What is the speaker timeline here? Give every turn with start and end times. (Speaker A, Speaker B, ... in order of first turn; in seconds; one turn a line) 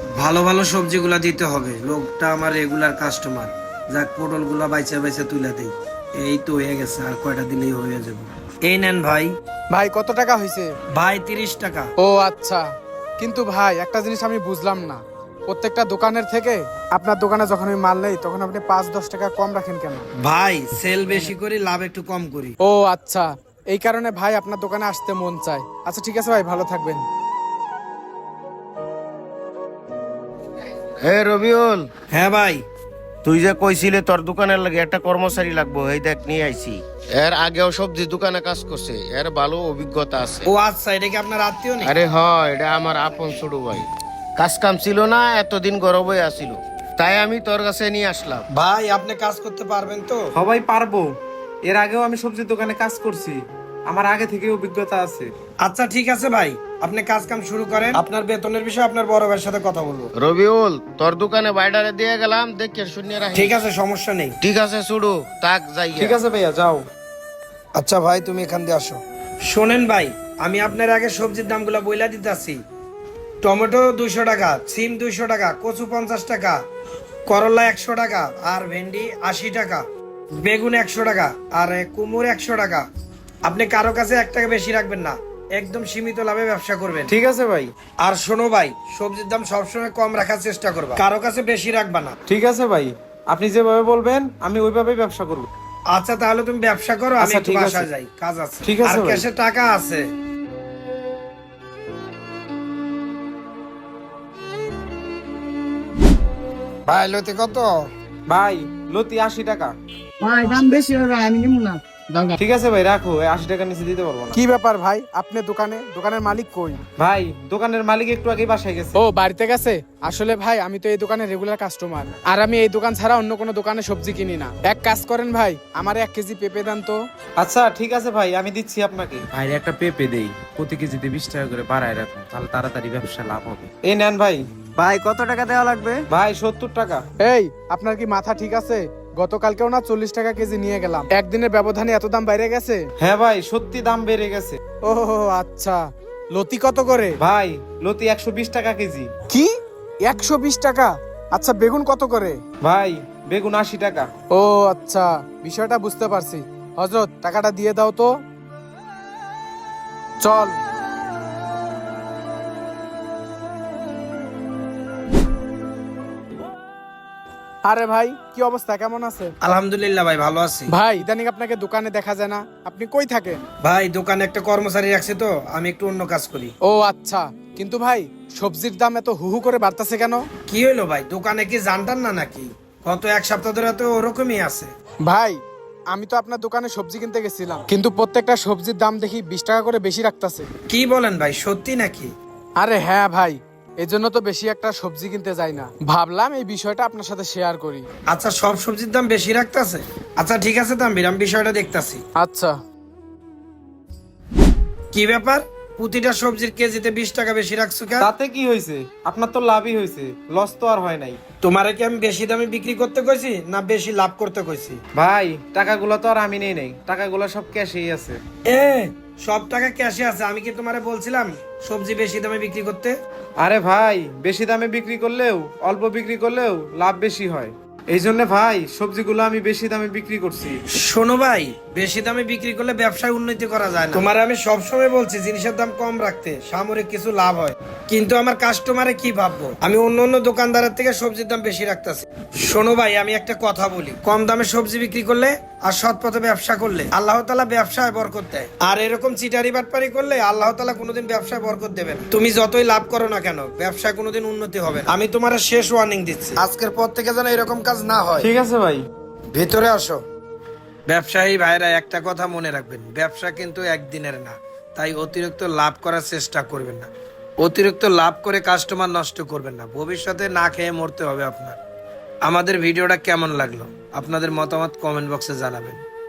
Speaker A: 0.2-9.3
Speaker B: 9.7-10.7
Speaker A: 10.9-11.9
Speaker B: 12.0-12.6
Speaker B: 13.2-20.1
Speaker A: 20.2-22.6
Speaker B: 22.6-27.0
Speaker C: 31.0-31.9
Speaker A: 32.1-32.6
Speaker C: 33.2-40.5
Speaker A: 40.4-41.9
Speaker C: 41.8-48.4
Speaker A: 48.5-50.2
Speaker D: 50.4-51.1
Speaker D: 51.6-55.3
Speaker A: 55.6-60.1
Speaker C: 60.2-63.6
Speaker A: 63.3-64.4
Speaker C: 64.4-66.2
Speaker D: 66.0-66.8
Speaker A: 67.8-72.6
Speaker A: 73.4-76.6
Speaker A: 77.3-79.8
Speaker A: 80.4-82.8
Speaker A: 83.5-87.1
Speaker D: 87.1-87.7
Speaker A: 88.0-92.2
Speaker D: 92.3-95.5
Speaker A: 95.9-100.0
Speaker D: 97.2-97.9
Speaker D: 98.6-99.2
Speaker A: 106.9-107.7
Speaker D: 108.3-109.7
Speaker E: 110.2-112.4
Speaker D: 112.4-114.4
Speaker B: 114.3-116.8
Speaker D: 117.0-119.0
Speaker B: 119.0-127.0
Speaker D: 127.4-134.4
Speaker D: 136.1-137.0
Speaker B: 137.2-142.8
Speaker D: 143.0-144.6
Speaker B: 144.8-147.1
Speaker D: 147.2-149.1
Speaker B: 150.0-152.4
Speaker D: 152.6-154.1
Speaker B: 154.3-158.1
Speaker B: 160.2-160.6
Speaker B: 167.6-169.3
Speaker A: 169.4-170.7
Speaker B: 170.7-173.4
Speaker A: 173.6-176.5
Speaker B: 176.7-180.3
Speaker A: 180.5-184.7
Speaker B: 185.1-190.5
Speaker A: 190.7-192.1
Speaker B: 192.6-197.8
Speaker A: 198.1-202.0
Speaker B: 202.2-202.5
Speaker A: 204.9-208.1
Speaker D: 208.0-211.2
Speaker A: 211.4-214.8
Speaker D: 214.9-218.2
Speaker A: 218.5-222.9
Speaker D: 223.4-230.6
Speaker A: 230.7-258.3
Speaker D: 258.2-258.8
Speaker A: 259.3-260.0
Speaker A: 260.9-266.9
Speaker A: 267.4-271.6
Speaker A: 272.2-275.8